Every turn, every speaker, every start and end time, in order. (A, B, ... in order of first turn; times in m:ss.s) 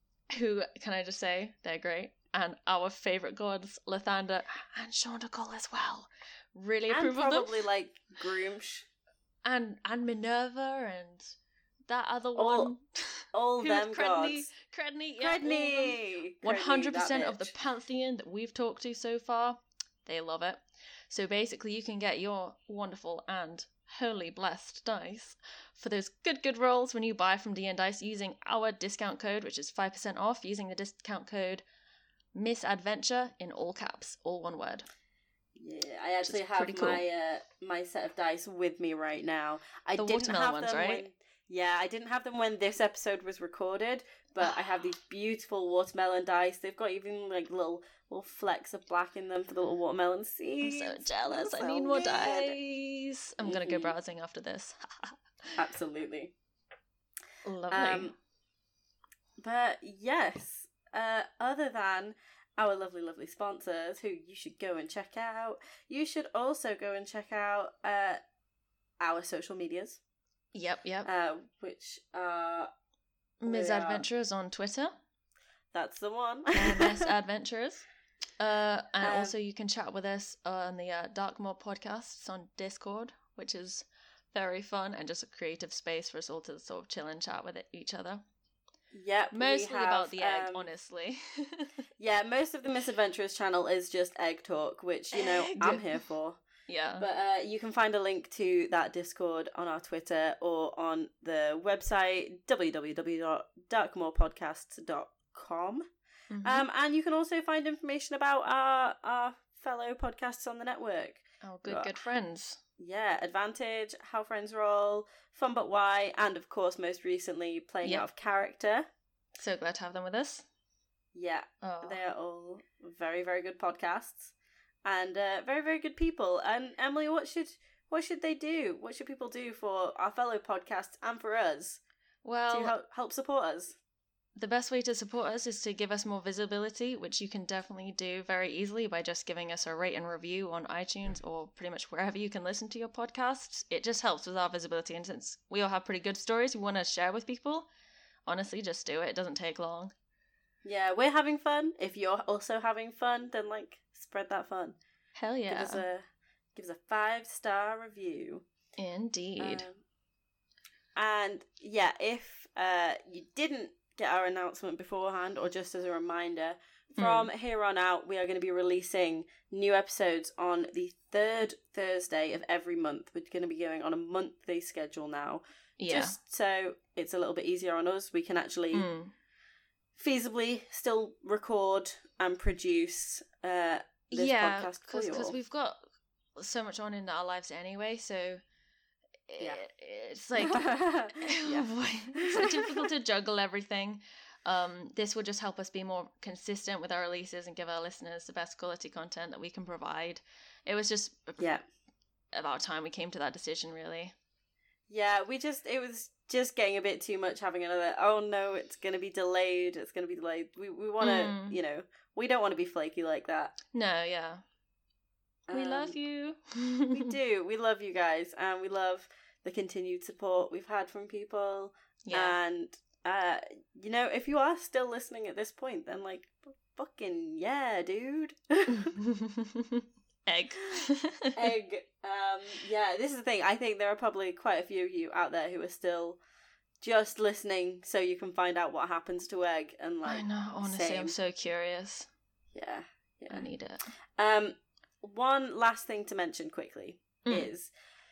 0:00.3-0:07.6 A
0:06.9-0:08.9 B
0:09.4-0:11.4 A
0:11.9-0:31.6 A
0:12.4-0:12.7 B
0:13.3-0:14.5 B
0:15.2-0:17.5 B
0:32.3-0:34.9 A
0:35.6-0:52.6 B
0:36.2-0:37.0 A
0:40.0-0:41.1 A
0:50.6-0:55.2 A
0:53.4-0:53.9 B
0:55.6-0:56.3 B
0:57.4-0:58.1 A
0:57.7-0:58.1 B
0:59.4-1:08.2 B
1:09.0-1:10.0 B
1:10.5-1:11.1 A
1:11.0-1:12.7 B
1:13.4-1:15.0 A
1:13.5-1:14.0 B
1:15.7-1:17.0 B
1:16.5-1:17.8 A
1:18.4-1:28.2 A
1:19.0-1:19.4 B
1:28.9-1:30.7 B
1:29.3-1:31.7 A
1:32.0-1:36.4 B
1:35.1-1:36.0 A
1:36.7-1:37.1 A
1:37.0-1:45.9 B
1:46.3-1:46.7 A
1:46.4-1:52.0 B
1:51.4-1:52.6 A
1:52.8-1:58.9 B
1:59.4-2:00.4 A
2:01.1-2:04.3 B
2:01.6-2:02.0 A
2:04.8-2:11.8 B
2:12.2-2:12.8 A
2:12.5-2:13.8 B
2:14.4-2:27.7 A
2:28.3-2:29.9 A
2:30.6-2:34.8 B
2:35.2-2:35.8 A
2:35.5-2:38.4 B
2:38.8-2:39.7 A
2:39.4-2:39.8 B
2:41.0-2:58.9 B
2:47.0-2:47.3 A
2:55.8-2:56.2 A
2:58.7-2:59.1 A
3:00.0-3:05.4 B
3:04.1-3:05.8 A
3:06.4-3:08.4 A
3:09.3-3:21.5 A
3:10.4-3:12.9 B
3:21.4-3:21.6 B
3:22.3-3:24.1 A
3:24.9-3:33.6 B
3:31.0-3:31.6 A
3:33.7-3:34.4 A
3:35.5-3:36.0 B
3:35.5-3:37.1 A
3:36.9-3:48.9 B
3:42.0-3:42.4 A
3:48.9-3:51.5 A
3:51.3-3:56.2 B
3:56.8-4:01.2 B
4:00.0-4:02.1 A
4:02.5-4:03.4 B
4:03.3-4:03.8 A
4:04.2-4:07.7 B
4:07.2-4:07.5 A